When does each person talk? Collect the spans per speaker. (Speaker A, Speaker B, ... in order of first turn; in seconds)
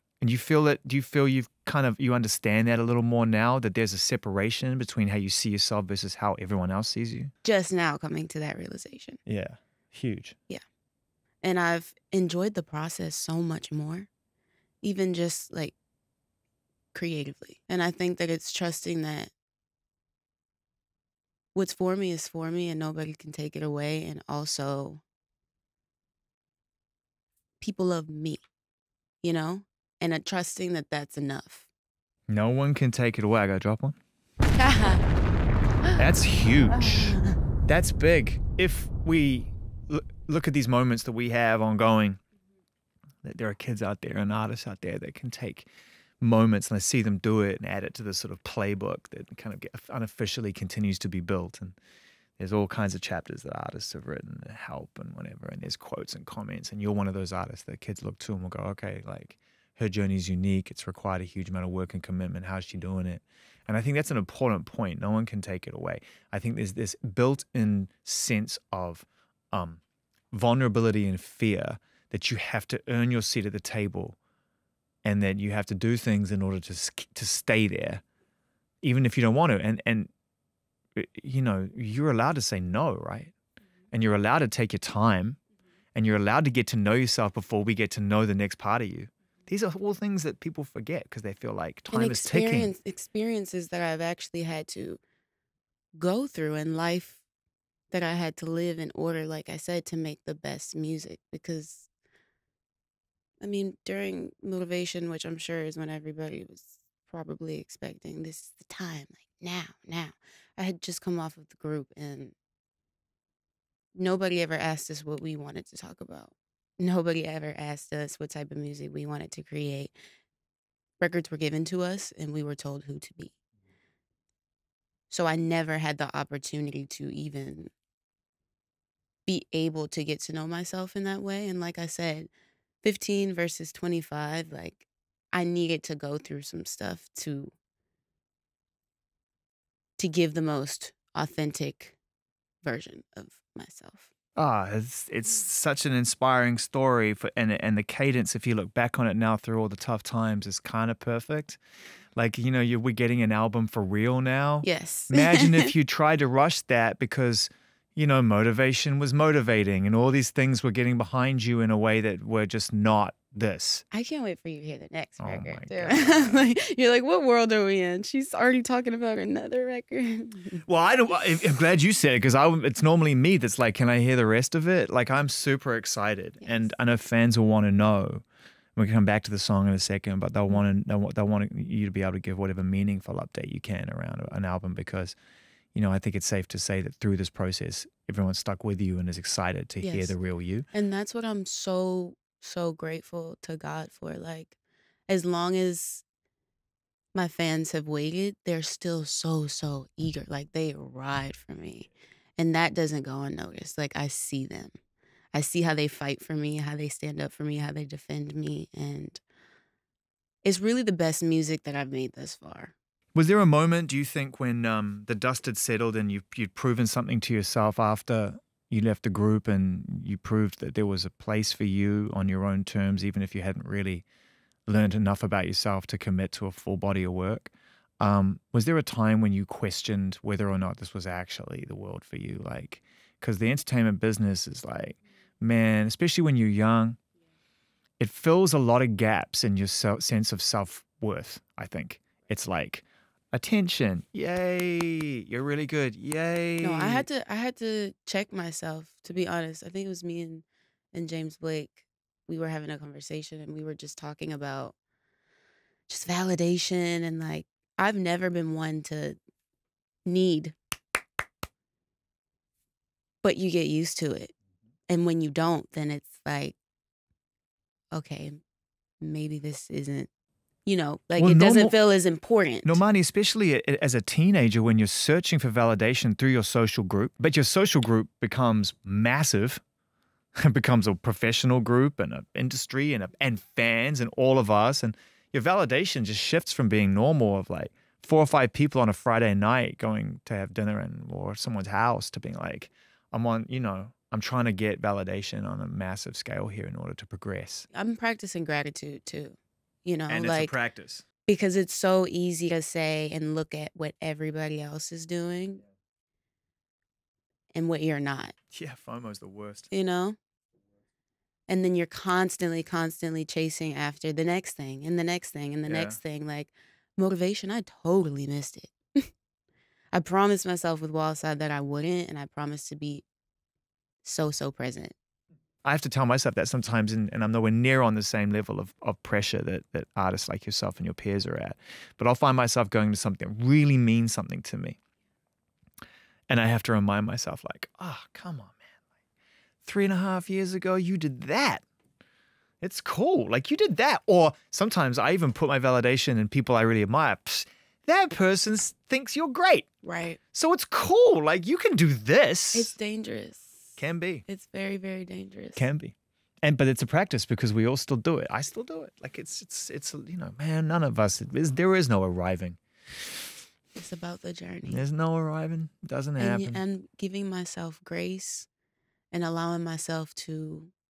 Speaker A: 0.2-7.3, 9.2-10.3, 32.3-34.0, 36.0-42.2, 43.2-45.7, 46.2-51.8, 52.4-69.8, 70.3-74.2, 75.0-78.0, 78.8-80.1, 81.0-83.3, 83.9-85.4, 85.9-92.7, 144.4-151.6, 152.2-163.8, 165.2-166.5, 170.7-178.2, 178.8-185.1, 185.8-190.7, 213.1-224.1, 224.7-237.0, 238.0-247.1, 271.2-271.8, 272.6-279.6, 280.4-297.7, 300.1-301.0, 308.5-309.7, 315.6-316.0, 325.6-334.8, 336.3-338.6, 339.6-341.6, 342.6-349.7, 350.3-352.7, 353.8-354.2, 355.6-362.6, 364.6-366.6
Speaker B: 7.4-9.2, 11.4-14.1, 14.8-15.8, 16.9-19.3, 21.5-25.0, 27.6-28.4, 29.2-31.7, 34.6-35.0, 36.7-37.4, 91.9-95.0, 96.0-97.2, 97.9-101.9, 103.4-112.3, 113.9-119.9, 121.0-123.4, 125.1-127.7, 129.2-132.3, 132.8-137.5, 140.0-142.0, 142.6-144.1, 154.6-155.7, 163.9-170.6, 176.4-176.7, 189.8-190.2, 190.7-194.5, 195.1-196.0, 197.1-204.8, 205.3-209.2, 210.4-212.8, 246.6-254.8, 255.9-259.2, 260.1-260.6, 263.2-264.3, 264.9-266.6, 267.9-268.4, 269.0-270.1, 270.6-272.8, 297.7-300.5, 301.2-305.6, 307.5-308.3, 309.7-310.2, 311.5-319.1, 319.9-323.0, 324.0-324.9, 349.8-350.2, 352.5-353.8, 354.3-355.7, 363.8-364.9, 366.2-368.5, 369.1-370.7